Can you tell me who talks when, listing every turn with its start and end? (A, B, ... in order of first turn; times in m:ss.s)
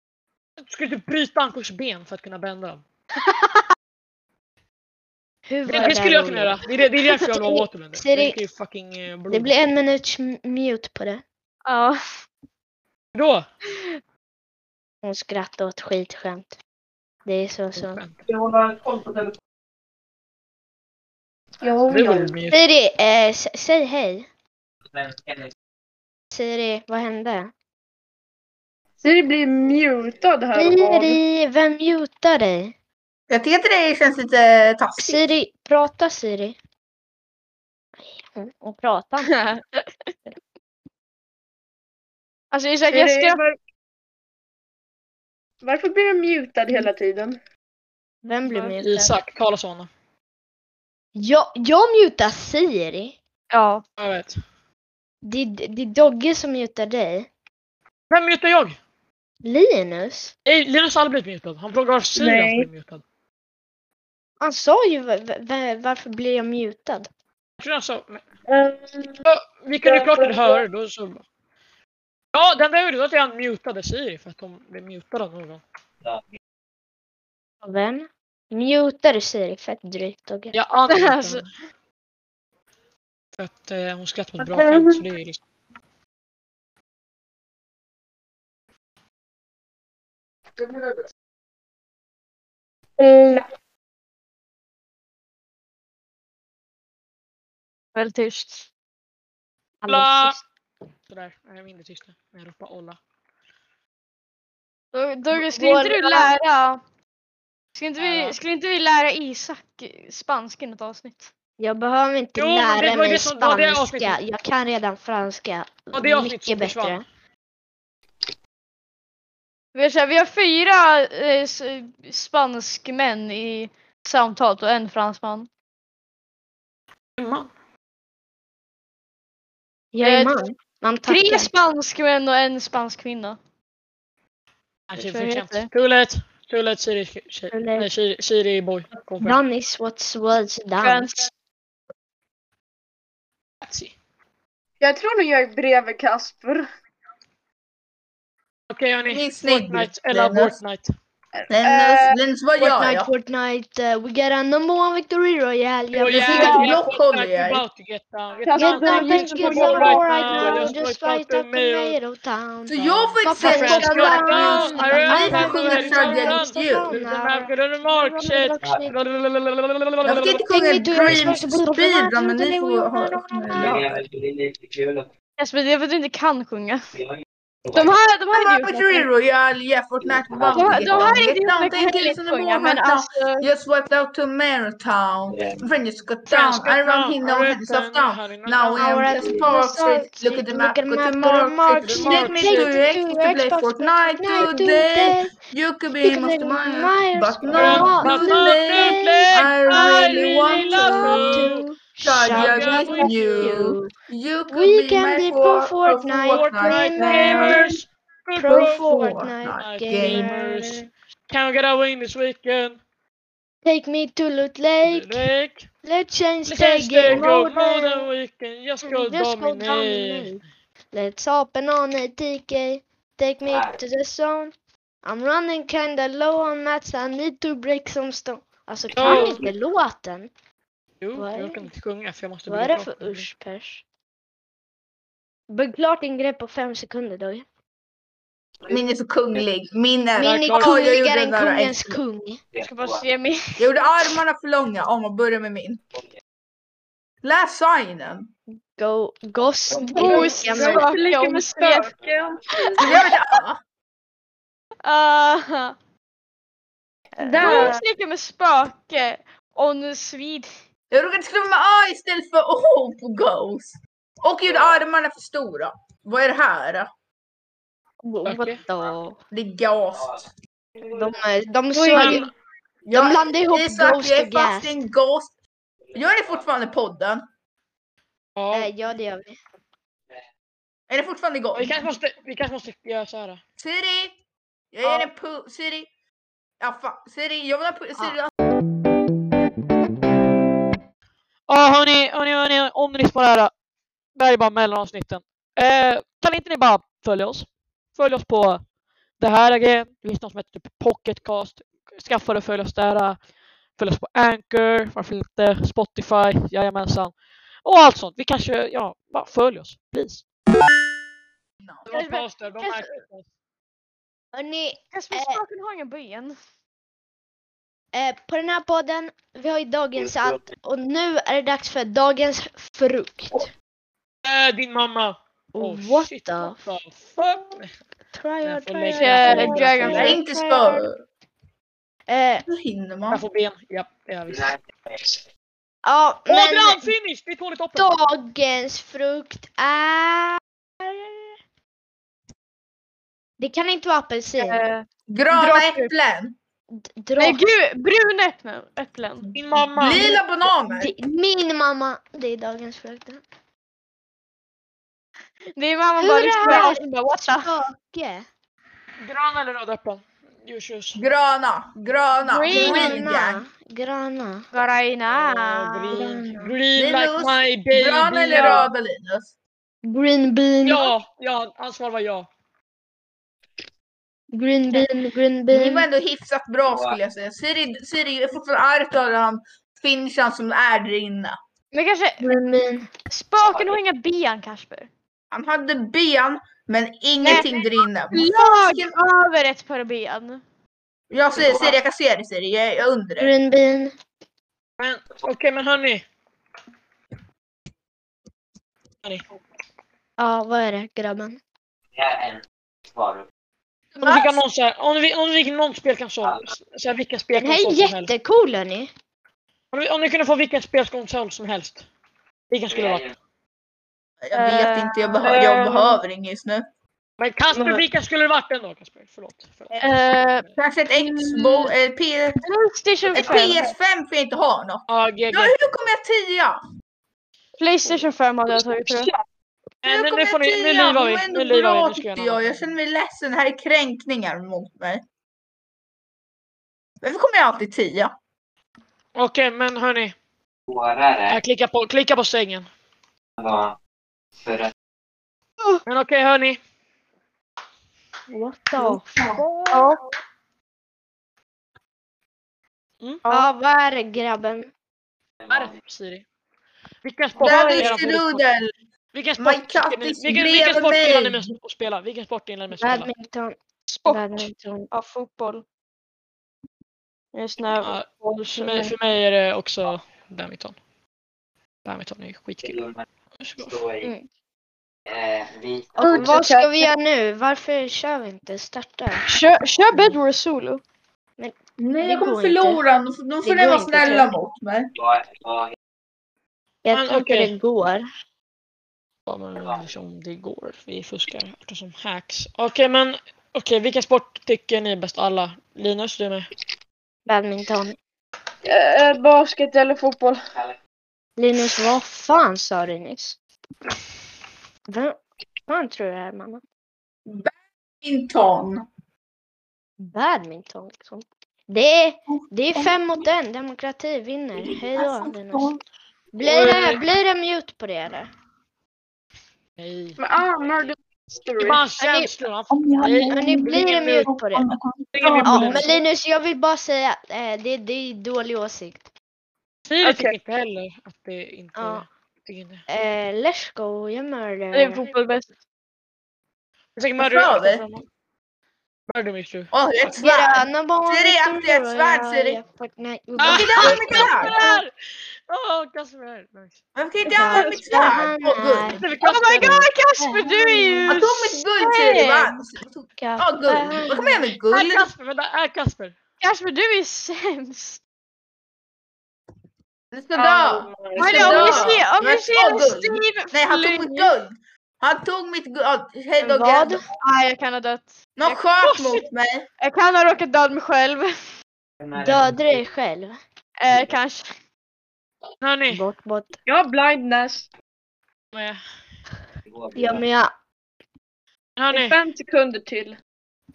0:00.6-0:02.8 A
0:05.5-0:06.6 B
0:05.7-0:09.6 A
0:07.1-0:08.4 B
0:09.3-0:11.2 B
0:11.7-0:12.0 C
0:13.2-0:13.5 A
0:15.0-0:16.6 B
0:17.3-0:18.0 B
0:17.8-0:18.2 A
0:18.3-0:19.2 D
0:21.6-0:22.4 D
0:21.9-0:22.6 A
0:22.5-0:24.3 B
0:24.9-0:25.5 E
0:26.3-0:27.5 B
0:29.0-0:31.2 D
0:30.5-0:32.7 B
0:33.3-0:35.2 F
0:35.0-0:36.6 B
0:38.0-0:39.3 B
0:39.3-0:39.8 C
0:42.5-0:43.4 C
0:42.9-0:43.6 D
0:45.6-0:47.4 D
0:48.2-0:49.1 B
0:48.8-0:49.9 A
0:51.2-0:53.2 B
0:53.5-0:53.8 C
0:54.0-0:54.4 A
0:55.2-0:57.3 B
0:58.1-0:58.8 A
0:59.4-1:00.3 B
1:00.5-1:03.0 A
1:02.2-1:02.7 D
1:04.4-1:07.1 B
1:07.6-1:08.2 A
1:08.5-1:09.2 D
1:09.2-1:11.2 A
1:09.8-1:10.6 D
1:12.3-1:15.6 A
1:17.6-1:20.6 B
1:20.5-1:21.5 A
1:20.9-1:21.4 C
1:23.4-1:25.4 A
1:24.4-1:25.0 D
1:30.6-1:31.0 D
1:33.0-1:33.4 D
1:38.0-1:38.7 C
1:39.8-1:40.4 B
1:39.9-1:40.4 A
1:41.1-1:43.0 A
1:44.9-1:46.8 C
1:45.4-1:46.3 B
1:47.8-1:51.3 C
1:48.0-1:48.4 A
1:51.6-1:57.0 B
1:52.4-1:54.2 A
1:55.9-1:57.0 A
1:59.7-2:05.5 C
2:07.2-2:07.5 A
2:09.9-2:11.5 B
2:10.0-2:10.4 C
2:11.1-2:13.4 C
2:14.9-2:19.4 A
2:15.0-2:15.7 C
2:17.5-2:17.9 B
2:19.2-2:21.3 B
2:20.8-2:21.3 C
2:23.6-2:23.9 A
2:24.8-2:26.7 D
2:28.7-2:30.9 A
2:29.1-2:30.6 F
2:31.4-2:32.2 D
2:31.5-2:33.1 F
2:32.6-2:36.8 B
2:35.9-2:42.0 A
2:36.1-2:37.6 F
2:38.4-2:40.8 D
2:38.6-2:49.0 B
2:42.7-2:46.9 F
2:43.4-2:50.4 A
2:48.6-2:48.9 E
2:50.0-2:54.0 F
2:50.5-2:53.8 B
2:51.0-2:51.4 A
2:53.5-2:55.1 E
2:55.4-2:56.8 C
2:57.0-2:57.9 E
2:57.7-2:59.1 C
2:58.3-3:21.5 F
3:00.0-3:01.2 E
3:00.5-3:03.4 C
3:05.3-3:05.6 E
3:06.3-3:09.2 A
3:08.8-3:15.3 B
3:11.8-3:12.8 A
3:16.0-3:23.9 B
3:17.5-3:21.6 A
3:22.0-3:27.7 F
3:22.2-3:23.7 A
3:24.5-3:27.7 B
3:26.3-3:28.9 A
3:28.4-3:30.9 B
3:28.5-3:30.3 F
3:29.6-3:32.8 A
3:33.6-3:35.3 B
3:34.8-3:35.7 A
3:35.8-3:38.1 B
3:36.5-3:40.4 A
3:38.8-3:40.4 B
3:40.9-3:50.3 B
3:43.5-3:43.8 E
3:49.0-3:49.5 A
3:51.0-3:53.3 A
3:51.1-3:51.7 B
3:52.5-3:53.8 B
3:55.5-3:57.5 B
3:58.7-4:02.0 F
4:00.2-4:02.4 B
4:00.2-4:00.8 A
4:02.5-4:03.0 E
4:02.6-4:03.6 C
4:03.6-4:05.8 F
4:07.2-4:08.3 F
4:08.5-4:10.8 B
4:09.9-4:13.0 D
4:10.0-4:11.9 C
4:12.8-4:13.6 F
4:14.8-4:15.8 C
4:17.2-4:20.5 C
4:17.2-4:17.8 D
4:20.9-4:26.9 F
4:24.5-4:24.8 E
4:28.0-4:29.2 B
4:28.2-4:28.6 A
4:29.3-4:30.2 F
4:30.9-4:32.3 B
4:31.8-4:32.2 D
4:31.9-4:32.3 A
4:32.8-4:35.3 F
4:32.9-4:34.8 B
4:35.9-4:36.4 E
4:35.9-4:37.2 F
4:38.4-4:38.7 A
4:38.5-4:39.4 B
4:40.9-4:41.8 F
4:41.6-4:43.4 A
4:43.6-4:44.2 F
4:44.7-4:45.9 F
4:46.6-4:48.3 F
4:51.5-4:53.5 A
4:54.2-4:58.6 A
4:59.2-5:03.2 A
5:03.8-5:07.1 A
5:07.6-5:10.2 A
5:11.6-5:11.9 F
5:11.9-5:13.2 A
5:11.9-5:12.9 C
5:14.3-5:15.4 B
5:14.9-5:16.4 C
5:17.9-5:23.5 B
5:20.0-5:20.4 E
5:24.2-5:27.7 A
5:25.5-5:26.6 B
5:28.1-5:30.2 B
5:28.4-5:30.2 A
5:28.9-5:30.8 C
5:29.9-5:31.0 F
5:32.1-5:32.4 B
5:32.5-5:33.2 F
5:33.1-5:34.5 A
5:34.3-5:35.2 E
5:35.8-5:36.9 B
5:36.3-5:37.9 A
5:37.8-5:41.3 B
5:43.4-5:44.6 B
5:44.4-5:45.9 C
5:45.1-5:46.4 F
5:46.7-5:47.4 B
5:47.2-5:49.3 C
5:49.3-5:50.1 A
5:49.8-5:50.9 F
5:50.0-5:53.2 B
5:55.6-5:57.5 C
5:56.0-5:58.3 B
5:59.0-6:01.0 A
6:01.0-6:03.4 F
6:02.2-6:03.1 C
6:02.5-6:04.5 B
6:04.5-6:06.0 C
6:05.1-6:08.7 A
6:05.9-6:06.6 B
6:06.8-6:09.3 F
6:09.8-6:10.9 B
6:10.6-6:12.3 A
6:14.3-6:15.9 B
6:15.5-6:21.4 F
6:16.7-6:17.0 E
6:21.7-6:22.3 C
6:22.2-6:22.9 B
6:23.1-6:24.9 C
6:23.4-6:23.8 E
6:25.3-6:28.9 F
6:27.2-6:27.6 C
6:28.1-6:30.4 C
6:31.1-6:33.3 F
6:31.4-6:31.8 E
6:33.2-6:33.9 B
6:34.8-6:36.0 A
6:40.2-6:41.4 B
6:42.0-6:43.2 E
6:44.0-6:44.4 F
6:44.0-6:48.1 A
6:46.2-6:46.5 E
6:47.4-6:48.9 B
6:49.7-6:51.8 A
6:52.5-6:53.1 A
6:52.7-6:53.1 E
6:54.2-6:56.6 F
6:54.3-6:55.2 C
6:55.2-6:56.0 D
6:57.2-7:00.6 A
6:57.5-6:57.8 D
6:59.8-7:00.4 C
7:00.6-7:02.4 F
7:02.4-7:03.6 C
7:03.2-7:06.6 F
7:04.9-7:05.5 A
7:07.6-7:09.1 C
7:08.9-7:09.2 D
7:09.8-7:12.4 A
7:09.9-7:15.0 F
7:17.0-7:18.1 F
7:19.2-7:20.1 A
7:20.7-7:21.4 E
7:21.3-7:22.7 A
7:23.4-7:23.8 E
7:24.4-7:24.7 E
7:25.9-7:26.6 A
7:28.3-7:29.1 B
7:29.3-7:29.9 A
7:29.7-7:30.0 C
7:33.2-7:33.5 C
7:33.3-7:34.7 B
7:35.4-7:35.8 E
7:35.5-7:36.2 A
7:37.0-7:38.5 A
7:37.4-7:38.7 F
7:39.1-7:43.1 A
7:39.4-7:41.5 F
7:42.7-7:44.9 B
7:43.9-7:45.6 C
7:47.3-7:48.9 C
7:47.8-7:50.8 A
7:51.8-7:52.8 A
7:52.6-7:53.0 E
7:53.4-7:53.8 A
7:53.6-7:54.1 E
7:55.1-7:56.3 E
7:56.0-7:59.4 B
7:56.0-7:56.9 D
7:59.3-8:00.8 C
8:01.4-8:02.8 B
8:01.8-8:04.9 F
8:03.4-8:04.3 B
8:05.0-8:05.8 E
8:06.8-8:08.1 B
8:06.9-8:07.5 A
8:09.3-8:16.5 A
8:17.3-8:18.0 B
8:18.6-8:20.4 D
8:21.4-8:23.4 B
8:24.9-8:26.6 B
8:27.3-8:28.9 F
8:30.0-8:35.7 B
8:32.3-8:33.0 F
8:34.6-8:35.8 F
8:36.3-8:38.3 B
8:36.4-8:37.0 A
8:39.8-8:40.2 A
8:40.2-8:41.8 D
8:41.6-8:44.3 A
8:42.0-8:42.3 B
8:42.7-8:45.8 F
8:43.3-8:44.7 B
8:45.2-8:45.9 A
8:45.4-8:49.1 B
8:49.9-8:52.8 A
8:50.0-8:50.4 D
8:51.8-8:52.0 B
8:52.9-8:55.0 B
8:54.7-8:55.5 C
8:57.0-8:58.1 A
8:57.2-8:57.9 F
8:59.1-8:59.7 A
8:59.7-9:02.6 F
9:00.1-9:04.8 B
9:03.4-9:04.9 A
9:03.4-9:04.5 F
9:05.5-9:06.8 A
9:07.0-9:09.1 F
9:07.2-9:09.0 B
9:09.0-9:09.8 A
9:09.2-9:12.5 C
9:09.6-9:11.1 B
9:11.1-9:15.1 F
9:13.2-9:14.4 B
9:14.7-9:16.2 A
9:16.4-9:18.0 C
9:20.1-9:27.0 F
9:20.4-9:22.0 D
9:21.2-9:24.3 C
9:26.4-9:27.0 B
9:27.2-9:29.2 C
9:28.4-9:29.7 F
9:29.8-9:31.3 C
9:32.0-9:32.8 E
9:32.2-9:33.4 B
9:33.8-9:34.5 C
9:35.6-9:36.0 A
9:35.9-9:36.6 B
9:36.7-9:37.7 D
9:38.5-9:38.8 A
9:39.7-9:40.2 E
9:40.0-9:40.5 B
9:41.8-9:42.2 A
9:41.9-9:43.2 D